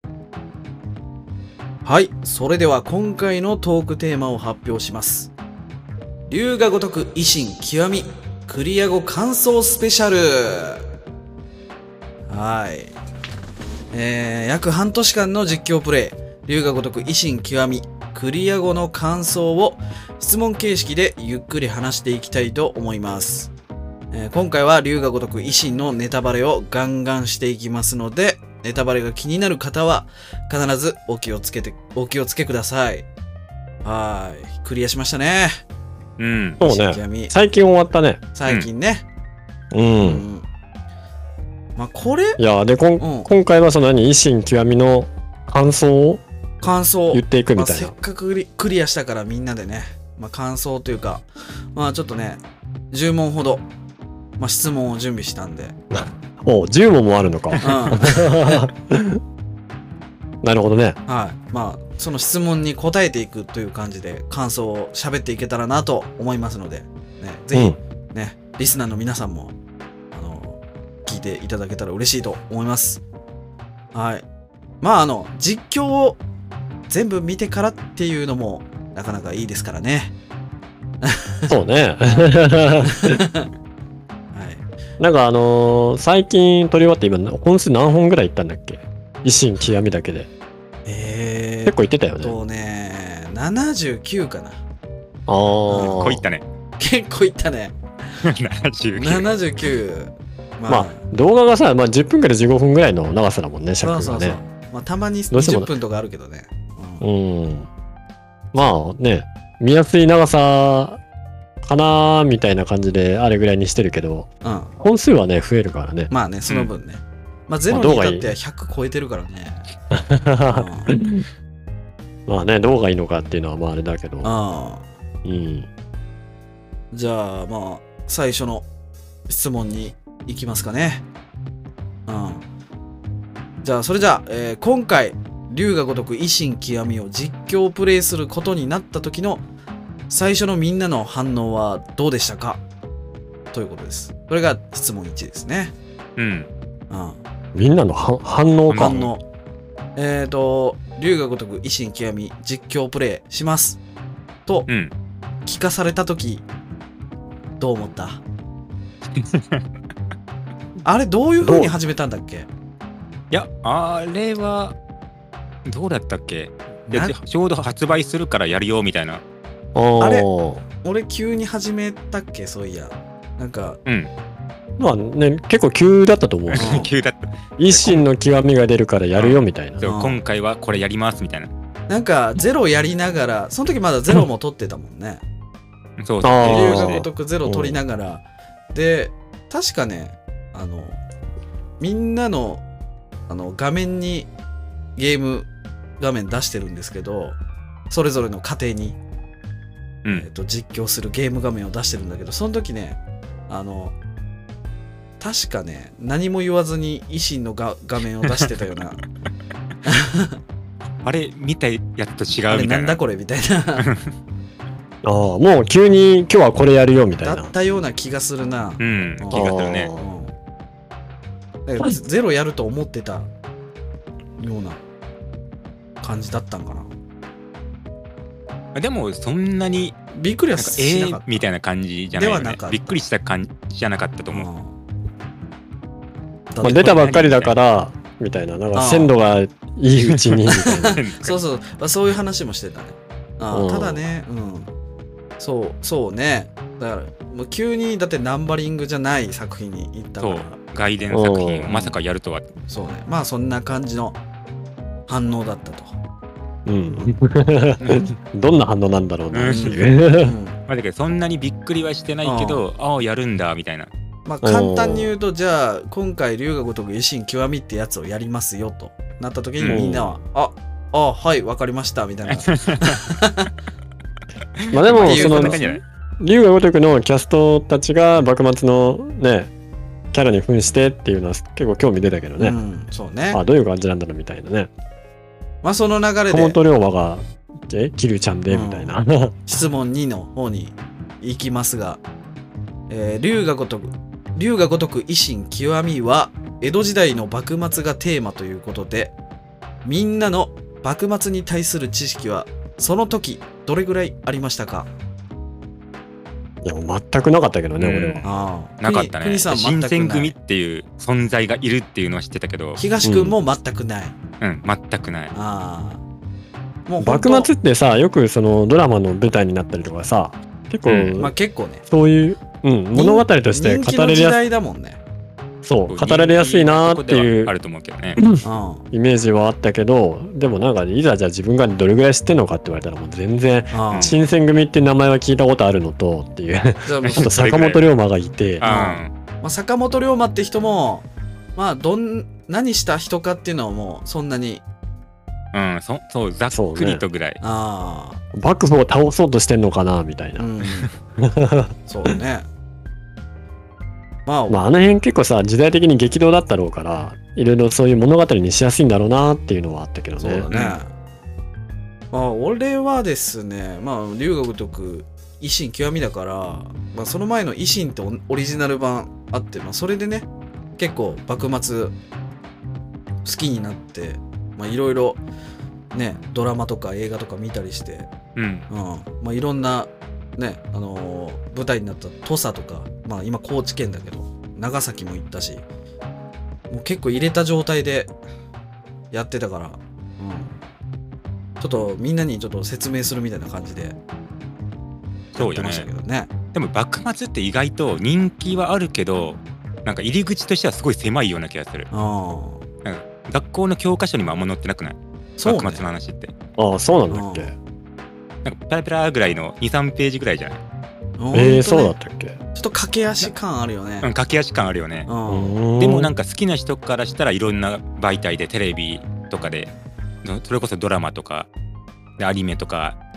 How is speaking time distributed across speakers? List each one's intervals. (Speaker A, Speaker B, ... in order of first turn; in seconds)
Speaker A: 1.9-5.3, 6.3-10.8, 12.3-12.9, 13.9-23.5, 24.1-33.1, 33.8-35.6, 36.6-37.3, 38.4-39.1, 40.0-40.5, 41.8-42.4, 43.0-43.3, 46.6-53.6, 54.4-55.8, 57.6-58.6, 61.1-69.5, 70.1-73.0, 73.9-74.2, 74.8-76.2, 76.9-80.2, 81.0-81.5, 82.9-83.5, 84.3-84.7, 90.9-94.6, 95.7-96.1, 96.8-97.8, 99.0-101.0, 103.8-107.0, 114.4-114.7, 116.1-119.7, 120.5-120.9, 124.2-124.8, 126.9-128.7, 129.3-131.1, 132.1-132.4, 133.6-139.4, 140.1-142.6, 143.5-145.8, 146.9-147.2, 148.7-149.2, 150.0-153.8, 155.5-156.5, 157.6-158.2, 160.8-162.5, 166.9-167.2, 170.0-170.3, 170.8-173.8, 176.6-176.9, 179.8-180.2, 181.9-185.2, 186.5-191.0, 191.8-192.6, 193.3-194.3, 195.0-195.5, 196.0-197.4, 197.9-199.0, 200.1-203.9, 205.2-209.0, 209.9-210.4, 212.5-213.9, 217.2-220.3, 221.7-223.3, 224.4-224.8, 226.0-226.9, 230.1-231.5, 232.1-233.0, 234.3-234.8, 236.5-237.1, 238.7-239.1, 240.6-244.7, 245.4-250.6, 251.7-251.9, 252.7-254.2, 255.1-256.0, 259.5-260.6, 262.2-262.6, 264.3-273.5, 275.0-275.8, 282.4-283.4, 285.6-286.6, 288.5-288.9, 289.5-292.0, 292.9-299.1, 299.9-304.9, 308.2-310.3, 312.8-314.1, 315.3-316.0, 316.9-317.5, 321.2-321.8, 322.9-325.0, 328.4-328.9, 333.7-334.2, 336.9-337.3, 338.6-344.6, 347.4-348.2, 350.4-350.9, 351.9-352.5, 354.3-354.6, 360.2-360.9, 362.1-372.0, 373.2-375.2, 375.9-378.1, 378.7-385.6, 386.7-388.1, 389.1-390.6, 391.6-394.0, 395.4-396.3, 401.9-402.6, 405.4-405.9, 407.1-407.5, 411.2-412.0, 412.6-414.1, 415.1-415.6
Speaker B: 36.2-36.6, 95.8-96.4, 98.2-99.3, 146.2-146.5, 148.7-149.1, 154.7-154.9, 159.2-159.6, 163.3-164.8, 165.7-169.2, 173.9-174.1, 176.5-178.0, 179.2-181.5, 186.0-187.0, 211.0-213.0, 218.8-219.9, 228.8-230.0, 230.6-234.5, 236.6-237.5, 240.0-241.4, 250.2-252.5, 259.3-259.8, 260.7-263.9, 272.3-273.0, 274.6-275.8, 307.8-308.3, 308.8-312.8, 314.4-315.4, 320.9-321.2, 325.9-328.2, 333.9-334.2, 337.1-337.8, 338.6-339.1, 345.5-347.4, 360.5-360.8, 378.4-378.7, 395.3-395.9, 396.5-401.9, 402.9-406.3, 408.4-410.6, 414.0-415.1, 415.8-419.7, 420.2-421.5, 422.2-423.0
Speaker C: 36.6-38.2, 39.7-40.2, 42.4-46.2, 47.1-48.0, 55.9-59.2, 60.4-61.0, 81.5-83.2, 85.0-90.3, 91.7-92.4, 95.3-96.3, 100.7-104.4, 105.3-105.7, 107.0-107.7, 108.5-111.0, 111.6-116.1, 117.7-118.3, 119.9-121.2, 122.3-124.3, 125.2-125.7, 147.5-149.0, 161.4-161.7, 169.8-170.6, 174.8-176.8, 177.6-179.8, 186.2-187.8, 215.0-217.5, 219.3-220.1, 236.6-241.0, 243.5-244.0, 251.1-251.7, 256.7-260.4, 264.4-265.1, 269.7-270.1, 274.7-275.6, 276.2-279.5, 280.1-282.6, 283.3-284.7, 286.3-289.4, 306.6-308.3, 313.0-313.4, 317.0-321.3, 321.9-324.4, 325.6-327.5, 328.2-338.6, 346.5-347.0, 348.3-350.5, 351.2-351.8, 354.5-360.5, 406.6-407.6, 411.3-412.4, 415.3-416.1